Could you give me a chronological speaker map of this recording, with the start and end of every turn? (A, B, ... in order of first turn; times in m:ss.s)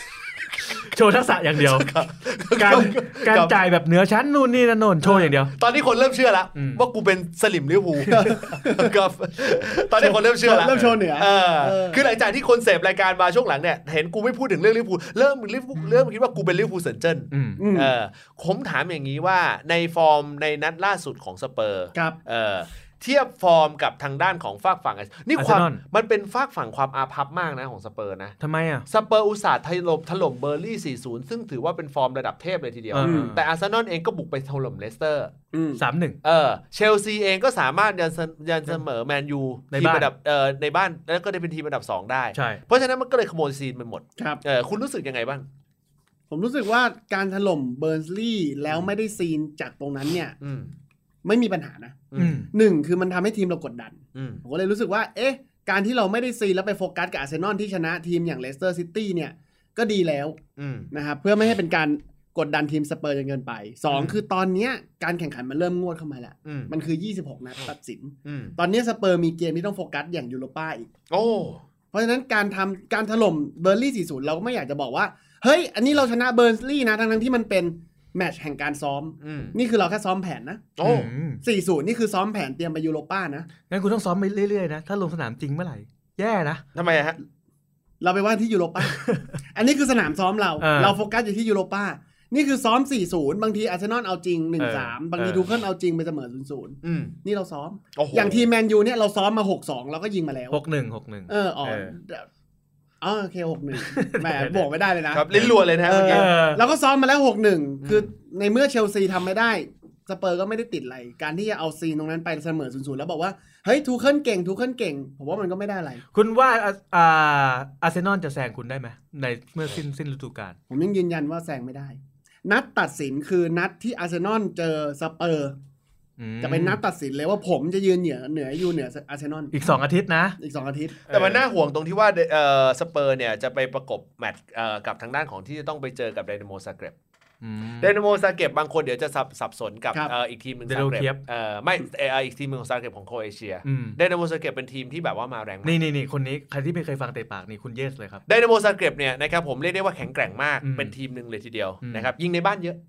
0:00.8-0:01.9 A
0:01.6-0:03.6 B
0:02.6-0:05.5 A
0:05.5-0:28.4 B
0:06.6-0:06.8 A
0:08.1-0:08.4 A
0:08.1-0:09.0 C
0:10.0-0:12.0 C
0:17.3-0:17.6 A
0:17.6-0:17.9 C
0:25.4-0:25.8 A
0:28.4-0:28.9 A
0:28.9-0:35.3 B
0:32.9-0:33.4 A
0:33.0-0:33.3 C
0:35.5-0:35.8 C
0:35.8-0:36.2 A
0:36.2-0:45.4 B
0:39.7-0:40.1 A
0:42.4-0:42.6 A
0:46.3-0:50.4 C
0:50.4-0:50.7 B
0:51.2-1:00.4 C
0:52.1-0:52.4 B
0:52.2-0:52.5 A
0:54.2-0:54.4 B
1:00.6-1:00.9 B
1:00.9-1:10.9 C
1:03.9-1:04.2 B
1:06.4-1:06.7 B
1:08.2-1:08.6 B
1:11.1-1:11.6 B
1:11.9-1:20.7 C
1:19.2-1:19.6 B
1:20.8-1:21.1 B
1:20.8-1:21.4 A
1:21.4-1:23.5 C
1:23.7-1:26.6 A
1:26.8-1:27.2 B
1:28.0-1:29.0 C
1:28.9-1:29.4 A
1:29.5-1:40.6 C
1:30.6-1:31.0 A
1:34.6-1:35.0 A
1:35.2-1:35.5 B
1:36.8-1:37.2 B
1:38.0-1:38.4 B
1:40.5-1:41.9 A
1:41.3-1:42.3 C
1:43.0-1:56.0 C
1:43.8-1:44.6 A
1:45.1-1:46.3 B
1:46.1-1:46.6 A
1:47.8-1:48.1 B
1:56.1-2:00.6 A
2:00.7-2:05.6 C
2:06.2-2:06.8 A
2:06.4-2:09.5 C
2:09.5-2:10.4 A
2:10.4-2:11.0 C
2:11.1-2:11.4 A
2:11.1-2:16.9 B
2:17.4-2:17.9 A
2:17.8-2:25.8 B
2:20.7-2:21.2 A
2:23.6-2:24.0 A
2:25.6-2:28.2 A
2:28.3-2:32.8 B
2:30.6-2:30.9 A